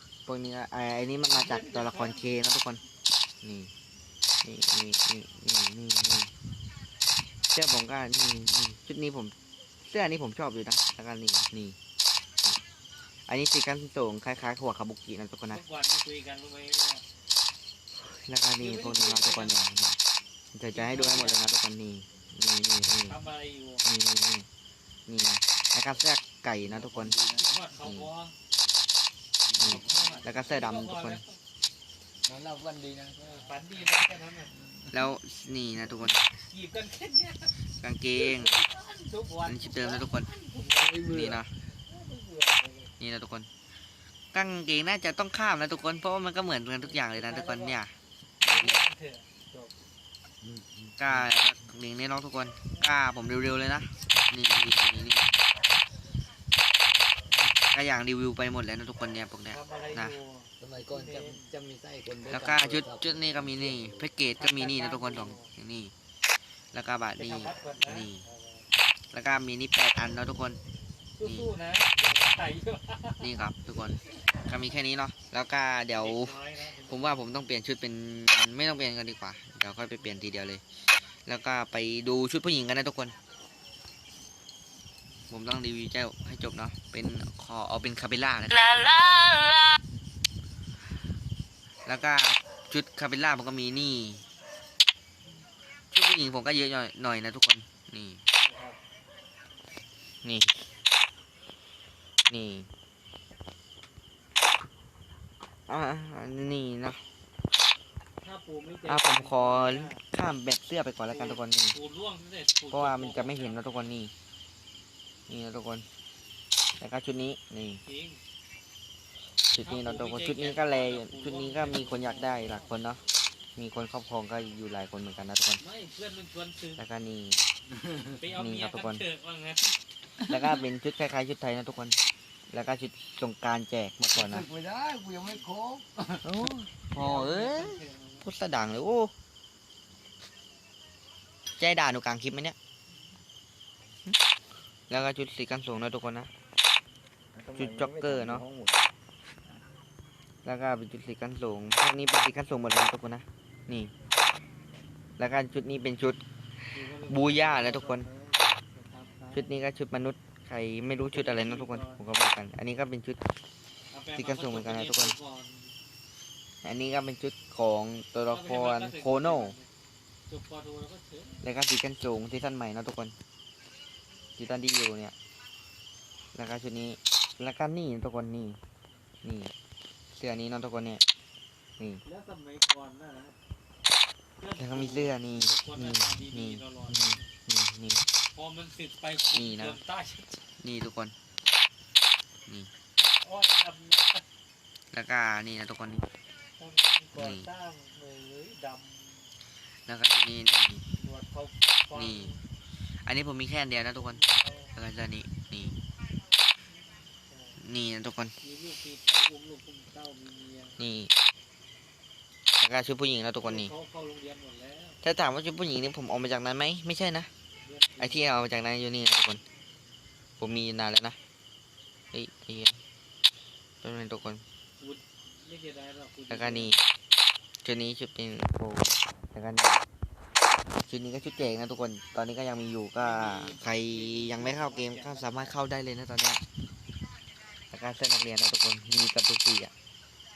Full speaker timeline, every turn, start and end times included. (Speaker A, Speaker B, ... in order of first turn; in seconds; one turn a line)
Speaker A: 0.3-2.8
Speaker B: 1.3-2.3
Speaker A: 3.4-3.7
Speaker A: 4.4-6.3
Speaker A: 7.5-11.8
Speaker A: 13.3-15.6
Speaker B: 15.5-17.1
Speaker A: 17.9-20.0
Speaker B: 18.6-19.6
Speaker A: 20.5-23.2
Speaker B: 20.7-21.4
Speaker B: 23.1-23.9
Speaker A: 23.9-24.5
Speaker A: 25.1-27.2
Speaker C: 26.6-27.7
Speaker B: 27.3-28.4
Speaker A: 27.8-28.1
Speaker C: 29.4-30.6
Speaker A: 29.6-31.2
Speaker B: 29.6-31.4
Speaker C: 32.2-35.1
Speaker B: 33.2-34.5
Speaker A: 34.9-36.3
Speaker B: 36.4-37.6
Speaker A: 37.7-38.6
Speaker B: 38.2-42.9
Speaker A: 39.4-40.3
Speaker C: 40.6-41.4
Speaker A: 41.1-41.5
Speaker A: 43.0-43.5
Speaker A: 44.3-48.9
Speaker B: 46.8-47.8
Speaker B: 48.4-49.7
Speaker C: 50.4-51.7
Speaker A: 51.0-55.3
Speaker B: 52.7-53.0
Speaker C: 57.3-57.6
Speaker A: 57.6-60.2
Speaker B: 59.5-61.5
Speaker C: 60.6-64.1
Speaker A: 62.3-65.9
Speaker B: 64.4-65.5
Speaker A: 66.7-68.2
Speaker B: 67.2-68.7
Speaker A: 69.1-70.6
Speaker B: 71.2-73.3
Speaker A: 71.2-71.5
Speaker A: 73.2-80.6
Speaker B: 76.0-77.3
Speaker A: 81.3-83.2
Speaker A: 85.3-89.3
Speaker A: 91.8-94.3
Speaker A: 95.9-98.2
Speaker B: 98.3-98.8
Speaker A: 100.2-100.7
Speaker A: 102.3-102.7
Speaker A: 105.7-107.1
Speaker B: 108.2-110.0
Speaker A: 108.9-111.8
Speaker B: 111.1-113.7
Speaker A: 112.7-114.1
Speaker A: 115.3-115.9
Speaker A: 116.8-117.8
Speaker B: 117.8-118.2
Speaker A: 119.5-123.0
Speaker B: 119.6-122.8
Speaker A: 123.6-125.6
Speaker B: 125.6-126.8
Speaker A: 126.8-127.4
Speaker C: 127.7-128.3
Speaker B: 128.2-129.8
Speaker A: 128.3-129.1
Speaker C: 130.2-130.6
Speaker A: 130.3-132.0
Speaker A: 132.5-134.5
Speaker C: 134.1-136.5
Speaker A: 136.2-139.1
Speaker B: 136.9-138.2
Speaker A: 141.6-142.6
Speaker A: 144.9-146.3
Speaker C: 147.3-148.8
Speaker A: 147.6-148.4
Speaker A: 150.4-153.9
Speaker A: 155.2-156.2
Speaker B: 156.7-159.5
Speaker A: 157.1-158.1
Speaker A: 159.3-163.2
Speaker B: 161.0-162.0
Speaker B: 163.9-165.8
Speaker A: 164.2-165.2
Speaker A: 166.6-169.6
Speaker B: 168.3-169.7
Speaker B: 170.3-171.4
Speaker A: 171.4-173.2
Speaker A: 174.4-175.1
Speaker A: 176.3-178.6
Speaker A: 179.2-179.5
Speaker A: 180.1-181.0
Speaker A: 181.8-182.0
Speaker B: 182.1-183.4
Speaker B: 184.4-187.3
Speaker A: 184.6-188.0
Speaker B: 188.3-190.5
Speaker A: 189.2-189.8
Speaker A: 190.6-191.2
Speaker A: 192.5-192.7
Speaker B: 193.0-194.2
Speaker A: 194.9-196.1
Speaker B: 196.6-199.3
Speaker A: 197.2-197.5
Speaker A: 199.9-200.9
Speaker B: 200.9-202.4
Speaker A: 201.9-204.2
Speaker B: 204.0-204.8
Speaker A: 204.7-205.8
Speaker B: 206.7-207.6
Speaker A: 207.6-208.4
Speaker B: 208.4-210.8
Speaker A: 210.8-211.1
Speaker A: 212.6-213.7
Speaker B: 213.4-215.0
Speaker A: 215.0-217.3
Speaker B: 217.6-218.2
Speaker A: 218.0-219.4
Speaker A: 220.4-221.2
Speaker A: 222.1-222.8
Speaker A: 223.8-224.4
Speaker B: 224.8-226.7
Speaker A: 226.3-226.8
Speaker A: 227.6-229.8
Speaker A: 230.9-236.4
Speaker B: 233.0-235.5
Speaker A: 237.7-239.7